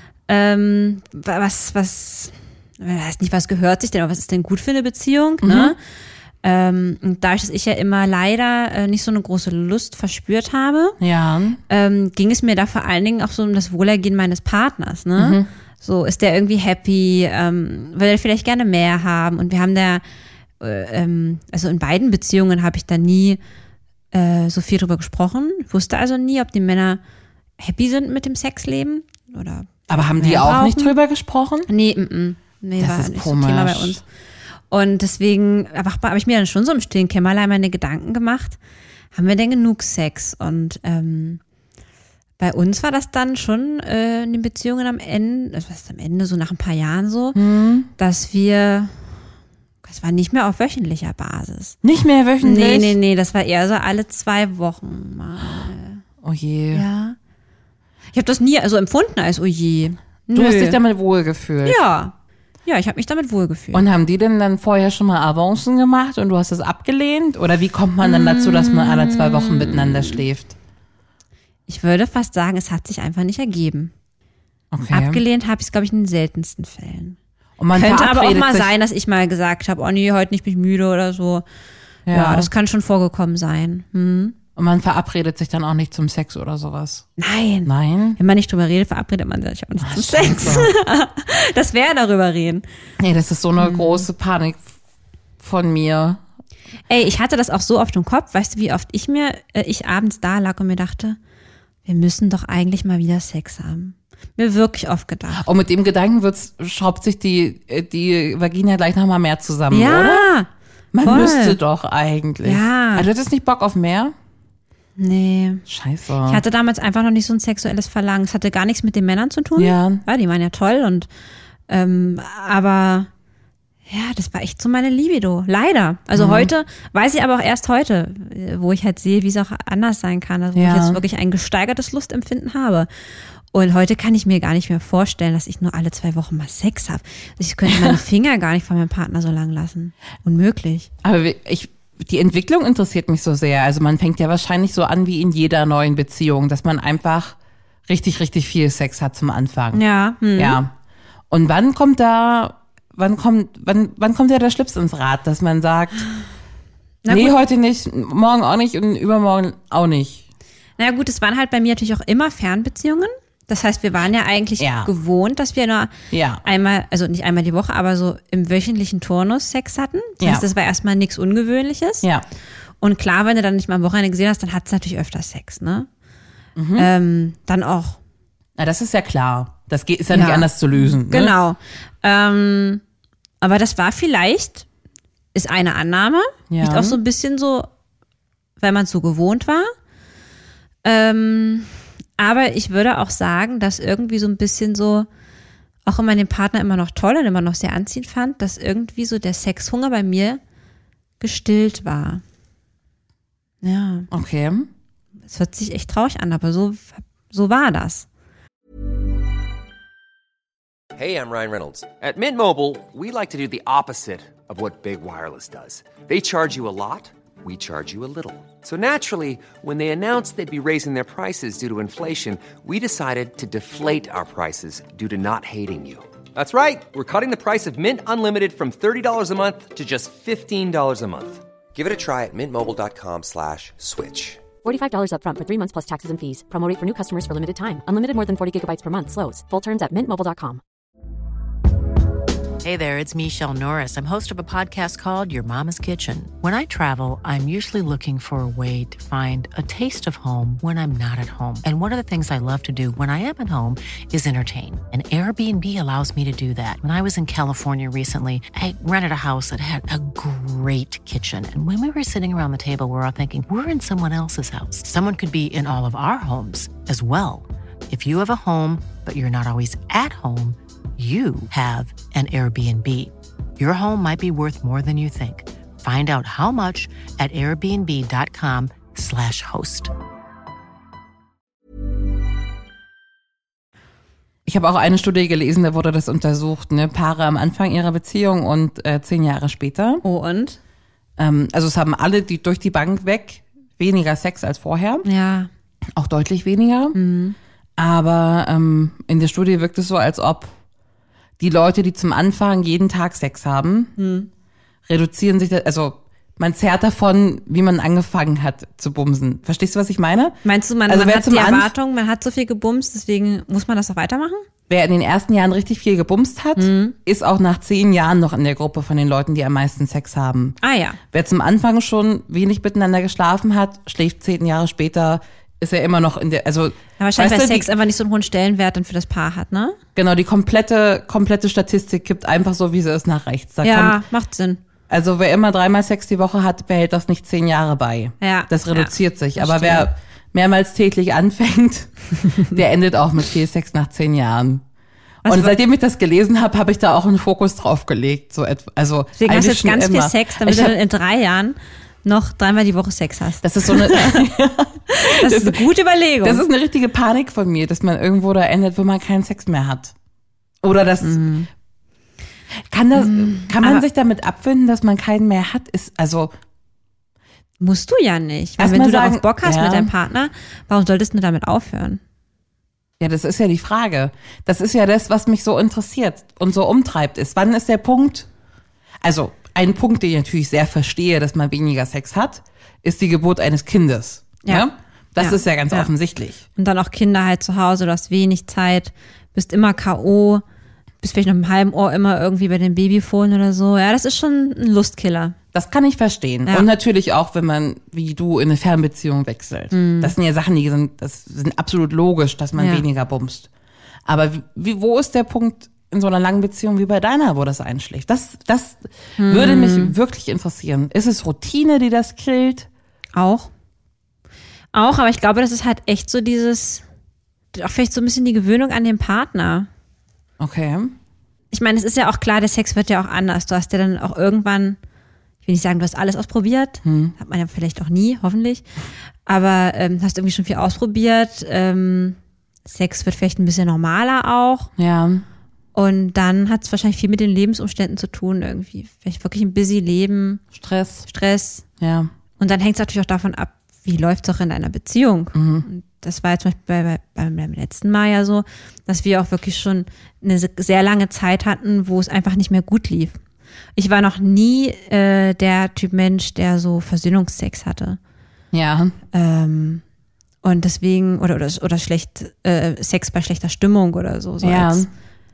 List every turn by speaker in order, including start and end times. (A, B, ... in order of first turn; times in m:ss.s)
0:00.3-0:05.8 A
0:05.4-0:05.7 B
0:06.4-0:11.0 A
0:11.0-0:11.6 B
0:11.7-0:20.0 A
0:15.2-0:15.5 B
0:20.6-0:23.4 A
0:24.1-0:27.0 A
0:27.6-0:30.9 A
0:29.9-0:31.7 B
0:31.7-0:34.0 A
0:32.8-0:34.0 B
0:34.7-0:38.6 A
0:39.1-0:41.4 A
0:42.4-0:47.4 A
0:47.3-0:47.9 B
0:48.0-0:49.1 A
0:49.8-0:51.8 A
0:51.8-0:53.0 B
0:52.4-0:56.0 A
0:56.2-0:56.8 B
0:56.7-0:57.2 A
0:58.1-1:00.8 A
1:00.3-1:01.8 B
1:01.6-1:02.1 A
1:02.6-1:03.8 A
1:03.7-1:10.6 B
1:08.0-1:10.2 A
1:11.7-1:13.9 A
1:14.7-1:15.2 B
1:14.9-1:17.2 A
1:17.6-1:18.7 B
1:17.7-1:21.4 A
1:22.1-1:22.5 B
1:22.1-1:24.3 A
1:24.6-1:27.1 B
1:27.2-1:32.6 A
1:27.6-1:28.2 B
1:29.8-1:30.7 B
1:33.0-1:34.7 B
1:33.6-1:34.0 A
1:35.4-1:36.2 B
1:36.9-1:41.2 A
1:41.8-1:45.5 A
1:45.3-1:50.3 B
1:49.7-1:50.5 A
1:50.9-1:54.1 B
1:51.0-1:51.6 A
1:52.4-1:53.1 A
1:55.0-1:55.6 A
1:55.7-1:56.4 B
1:56.2-2:01.1 A
1:59.6-2:00.0 B
2:01.7-2:03.1 A
2:03.9-2:12.9 A
2:06.1-2:06.5 B
2:10.5-2:11.0 B
2:13.5-2:20.9 A
2:17.6-2:18.0 B
2:21.0-2:27.4 B
2:27.9-2:29.8 B
2:29.7-2:30.6 A
2:30.3-2:30.7 B
2:31.3-2:36.0 B
2:37.0-2:37.4 A
2:37.1-2:40.2 B
2:40.8-2:52.1 A
2:44.6-2:44.9 B
2:46.1-2:46.4 B
2:52.8-2:55.9 A
2:56.6-2:56.9 B
2:56.8-2:58.0 A
2:58.6-3:01.3 B
3:00.1-3:02.8 A
3:03.4-3:04.6 A
3:05.3-3:07.7 A
3:06.5-3:07.0 B
3:08.6-3:09.7 A
3:10.8-3:15.1 A
3:15.8-3:20.4 A
3:21.2-3:22.2 A
3:23.6-3:24.1 A
3:24.1-3:24.7 B
3:25.3-3:28.0 A
3:30.9-3:54.5 C
3:54.6-4:00.6 D
4:02.6-4:39.9 E
4:44.4-4:50.0 B
4:50.0-4:50.6 A
4:51.2-4:55.0 B
4:55.0-4:55.5 A
4:55.9-4:57.0 B
4:56.9-4:57.4 A
4:57.8-5:00.5 B
5:01.4-5:03.9 B
5:04.0-5:04.3 A
5:04.9-5:11.7 B
5:10.4-5:14.4 A
5:14.7-5:20.6 B
5:16.6-5:16.9 A
5:20.6-5:21.0 A
5:21.1-5:27.7 B
5:27.0-5:29.8 A
5:30.0-5:34.0 B
5:33.6-5:34.6 A
5:34.9-5:44.6 B
5:38.2-5:39.9 A
5:45.2-5:45.6 A
5:45.2-5:50.8 B
5:49.2-5:54.2 A
5:53.4-5:55.6 B
5:54.9-5:56.4 A
5:56.2-5:59.9 B
6:00.6-6:01.3 B
6:01.0-6:01.5 A
6:02.7-6:06.3 B
6:02.9-6:03.8 A
6:07.6-6:12.0 A
6:08.6-6:09.9 B
6:13.0-6:18.3 B
6:19.0-6:26.4 B
6:24.4-6:25.9 A
6:26.6-6:30.4 A
6:31.0-6:35.4 A
6:35.5-6:43.5 B
6:39.7-6:40.1 A
6:42.6-6:42.8 A
6:44.0-6:52.7 B
6:49.2-6:49.9 A
6:53.1-6:53.5 A
6:54.7-6:56.8 A
6:57.5-6:59.7 A
7:00.4-7:00.9 B
7:01.5-7:04.8 A
7:05.4-7:08.6 A
7:06.8-7:07.1 B
7:09.2-7:14.7 A
7:14.8-7:15.2 B
7:15.7-7:20.4 A
7:20.5-7:21.1 B
7:21.1-7:21.6 A
7:21.8-7:22.1 B
7:22.4-7:33.2 A
7:25.3-7:25.7 B
7:33.8-7:38.0 A
7:38.5-7:39.0 B
7:39.1-7:39.8 A
7:40.4-7:44.9 A
7:44.4-7:44.9 B